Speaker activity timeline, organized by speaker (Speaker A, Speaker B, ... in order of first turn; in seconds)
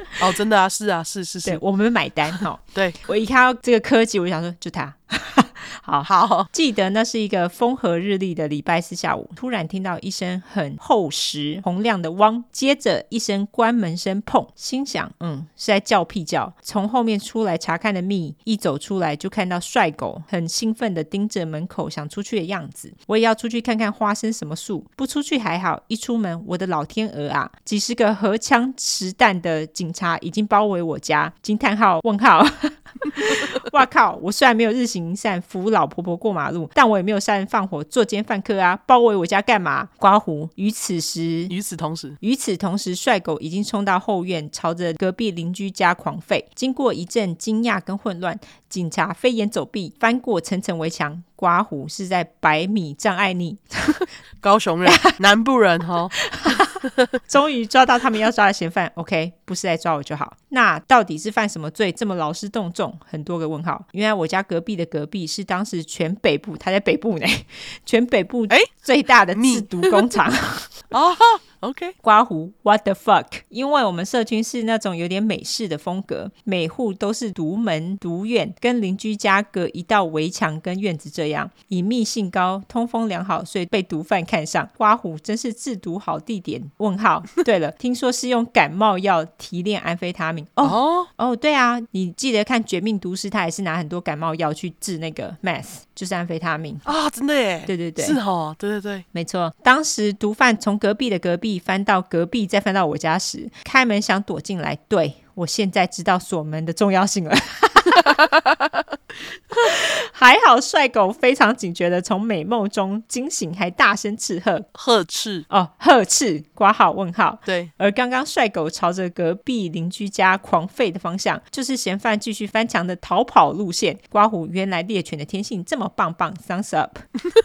Speaker A: 0.2-1.6, 2.7-3.0, 6.0-6.5, 41.5-42.2, 54.4-56.1, 56.8-57.1, 69.3-70.1, 70.9-72.0, 90.6-91.1, 96.8-99.0, 108.3-108.5, 114.8-115.5, 117.5-117.7
Speaker B: 1.4-41.5, 42.2-54.0, 54.9-55.1, 56.3-70.8, 72.0-96.8, 97.7-98.2, 99.1-108.2, 109.5-114.7, 115.5-127.0